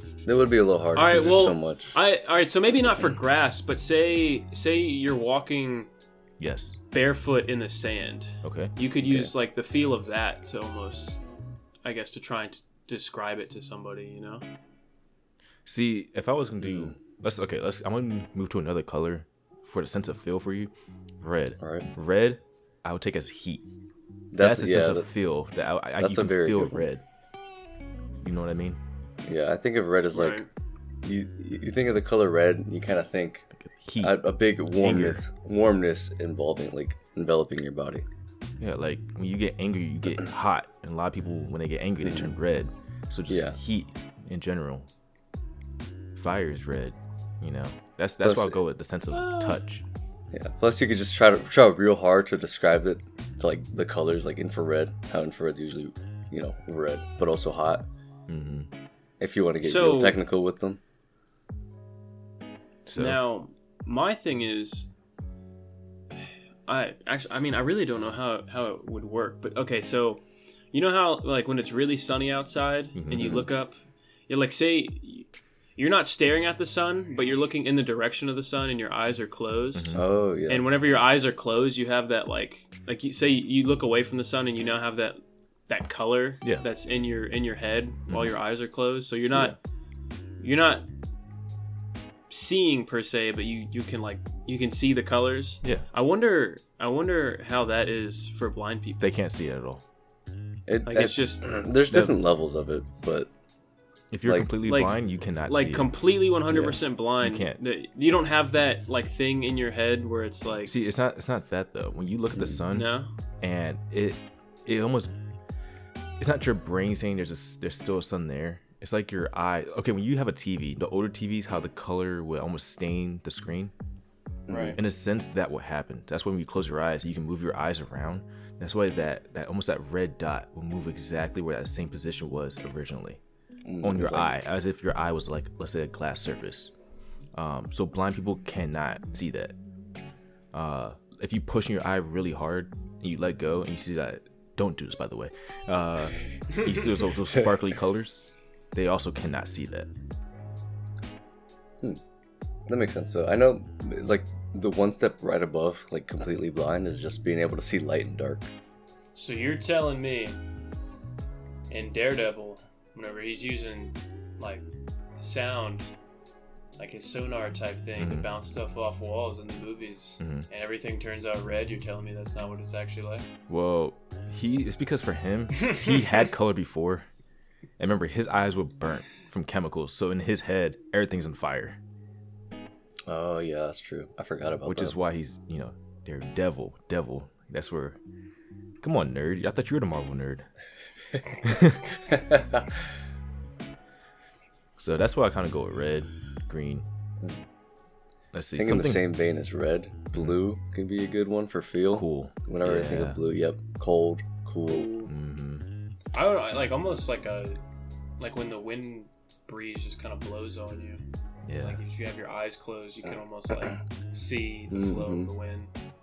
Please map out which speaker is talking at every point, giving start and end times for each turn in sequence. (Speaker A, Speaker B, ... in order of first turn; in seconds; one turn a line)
Speaker A: 0.2-2.0
Speaker B: 0.9-5.9
Speaker C: 6.4-6.8
Speaker B: 6.9-11.2
Speaker C: 8.4-8.7
Speaker A: 9.0-9.3
Speaker B: 11.8-14.4
Speaker C: 15.7-23.7
Speaker A: 16.6-17.0
Speaker A: 21.6-21.9
Speaker A: 24.3-25.1
Speaker C: 24.4-27.0
Speaker A: 26.0-26.9
Speaker C: 28.2-28.8
Speaker A: 29.2-30.4
Speaker B: 30.1-30.5
Speaker A: 31.0-33.5
Speaker C: 33.7-34.2
Speaker A: 34.0-38.0
Speaker C: 34.8-35.2
Speaker C: 38.6-44.9
Speaker A: 42.0-42.3
Speaker A: 43.3-43.6
Speaker C: 46.1-49.8
Speaker A: 48.2-48.6
Speaker B: 49.1-49.6
Speaker A: 50.3-57.9
Speaker C: 58.3-58.7
Speaker A: 59.2-60.8
Speaker B: 59.6-60.2
Speaker C: 62.9-63.2
Speaker B: 63.0-64.9
Speaker B: 66.7-73.8
Speaker C: 73.0-73.4
Speaker A: 73.2-73.5
Speaker B: 74.3-89.6
Speaker C: 79.7-80.0
Speaker A: 79.9-80.7
Speaker B: 90.4-90.9
Speaker B: 92.3-99.0
Speaker C: 99.0-99.8
Speaker A: 100.7-103.3
Speaker B: 100.9-101.5
Speaker C: 101.9-102.2
Speaker C: 104.1-105.9
Speaker B: 104.6-110.7
Speaker A: 106.5-106.8
Speaker C: 107.2-107.6
Speaker C: 110.7-112.9
Speaker B: 112.7-113.1
Speaker C: 113.4-115.1
Speaker C: 116.2-123.7
Speaker A: 124.5-124.8
Speaker B: 124.5-124.8
Speaker C: 124.8-133.2
Speaker A: 133.7-134.4
Speaker C: 133.8-136.7
Speaker C: 137.3-139.6
Speaker C: 140.5-149.9
Speaker A: 152.7-158.5
Speaker B: 159.2-160.4
Speaker B: 161.7-164.7
Speaker B: 165.2-165.9
Speaker B: 166.8-173.3
Speaker C: 168.0-168.3
Speaker C: 170.2-170.5
Speaker C: 173.5-177.1
Speaker B: 175.6-176.2
Speaker C: 177.8-181.8
Speaker A: 183.1-185.0
Speaker C: 184.7-188.0
Speaker C: 188.8-190.5
Speaker C: 191.4-191.8
Speaker A: 192.1-192.7
Speaker C: 194.8-196.8
Speaker C: 198.3-199.1
Speaker A: 198.6-204.9
Speaker C: 201.9-203.2
Speaker B: 204.6-205.1
Speaker C: 205.1-205.7
Speaker B: 206.1-207.6
Speaker B: 208.2-211.0
Speaker C: 211.5-211.8
Speaker B: 211.6-215.7
Speaker A: 214.7-215.3